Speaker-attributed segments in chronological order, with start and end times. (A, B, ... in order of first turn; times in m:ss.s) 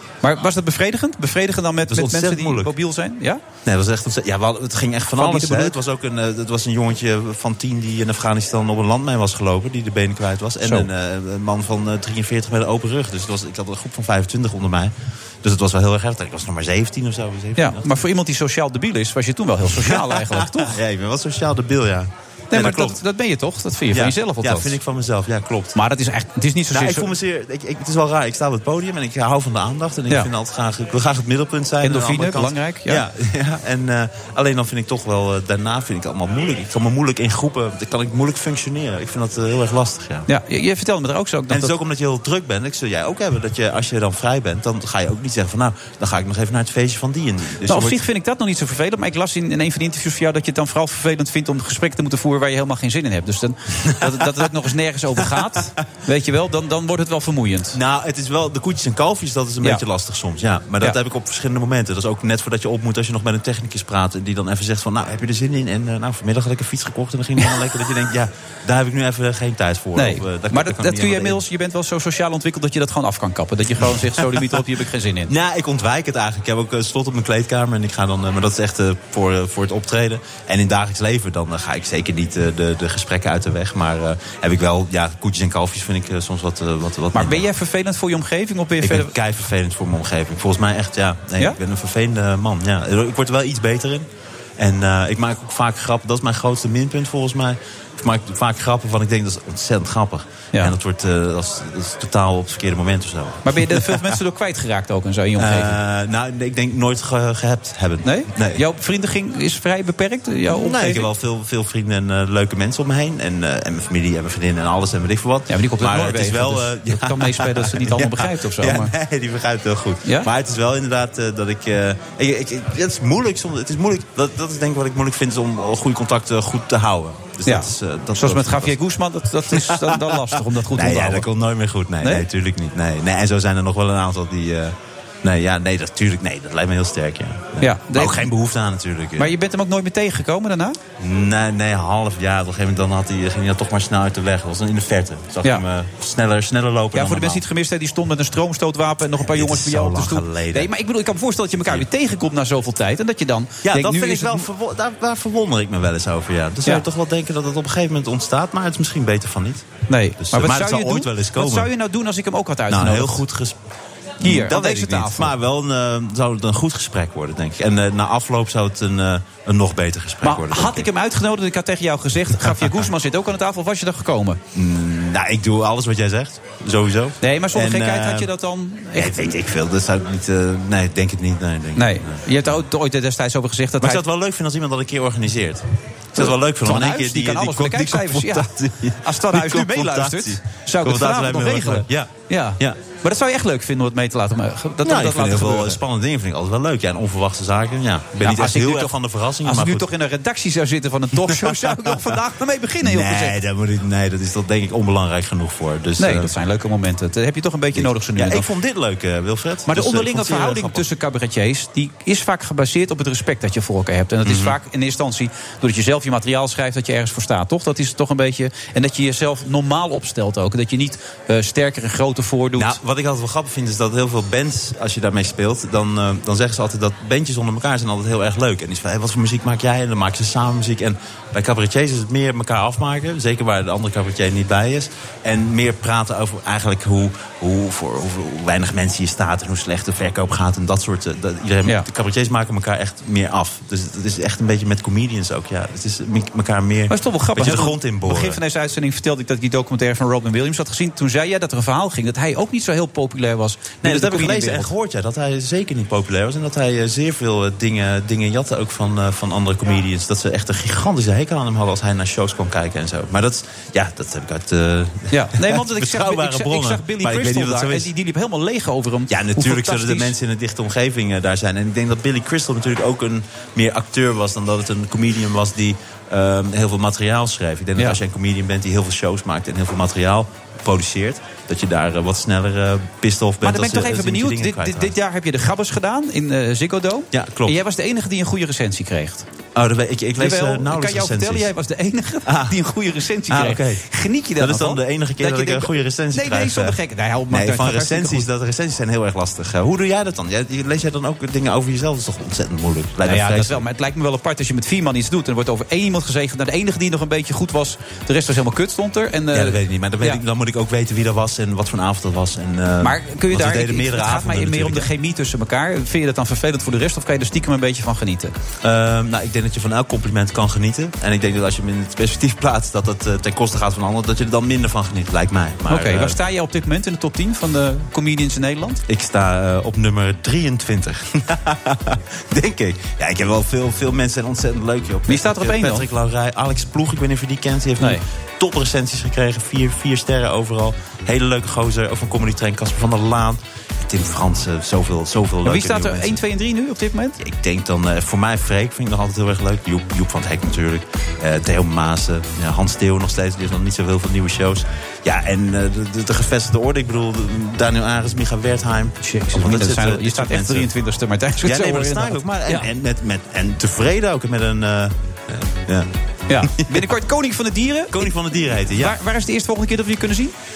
0:00.2-0:03.4 A
0:01.9-0:02.7 B
0:03.6-0:17.8 B
0:05.2-0:05.8 A
0:17.6-0:20.7 A
0:19.6-0:23.0 B
0:22.5-0:24.8 A
0:23.9-0:25.8 B
0:25.7-0:27.1 A
0:26.7-0:40.3 B
0:31.8-0:33.0 A
0:40.3-0:41.7 A
0:41.5-0:48.0 B
0:47.7-0:57.8 A
0:53.8-0:54.3 B
0:57.7-1:11.4 B
1:10.0-1:15.3 A
1:13.8-1:14.6 B
1:15.3-1:27.5 B
1:27.1-1:29.1 A
1:28.8-1:34.1 B
1:34.6-1:44.2 B
1:43.4-1:45.8 A
1:45.4-1:48.6 B
1:48.0-1:51.1 A
1:50.5-2:08.8 B
1:55.5-1:58.9 A
2:07.5-2:11.3 A
2:09.5-2:19.3 B
2:17.6-2:18.3 A
2:19.2-2:20.8 A
2:21.0-2:27.4 B
2:26.9-2:34.4 A
2:29.1-2:30.7 B
2:33.6-2:39.7 B
2:39.9-2:43.2 A
2:40.2-2:41.7 B
2:42.7-2:43.6 B
2:44.2-2:50.9 B
2:44.2-2:45.3 A
2:50.2-2:54.4 A
2:52.4-2:52.9 B
2:54.5-2:58.3 B
2:57.2-2:59.3 A
2:58.9-3:02.6 B
3:01.8-3:04.0 A
3:03.8-3:12.8 B
3:06.2-3:15.8 A
3:14.8-3:19.9 B
3:18.2-3:23.4 A
3:21.2-3:22.1 B
3:22.8-3:26.3 B
3:26.0-3:28.5 A
3:27.7-3:30.9 B
3:29.7-3:42.8 A
3:34.2-3:34.6 B
3:42.6-4:08.4 B
4:06.9-4:14.7 A
4:13.8-4:27.9 B
4:25.1-4:30.1 A
4:29.1-4:44.9 B
4:43.4-4:49.2 A
4:47.1-4:47.6 B
4:49.5-4:51.5 B
4:50.2-4:58.2 A
4:52.2-4:52.6 B
4:53.3-4:53.8 B
4:54.4-4:56.8 B
4:57.3-5:03.6 B
5:03.0-5:10.2 A
5:09.3-5:14.9 B
5:12.8-5:18.3 A
5:18.6-5:26.2 B
5:25.7-5:28.8 A
5:28.9-5:46.2 B
5:35.1-5:35.9 A
5:45.4-5:47.2 A
5:47.2-6:00.7 B
5:59.0-6:02.7 A
6:01.4-6:05.9 B
6:06.3-6:08.1 A
6:06.4-6:06.8 B
6:07.9-6:09.0 B
6:08.7-6:10.3 A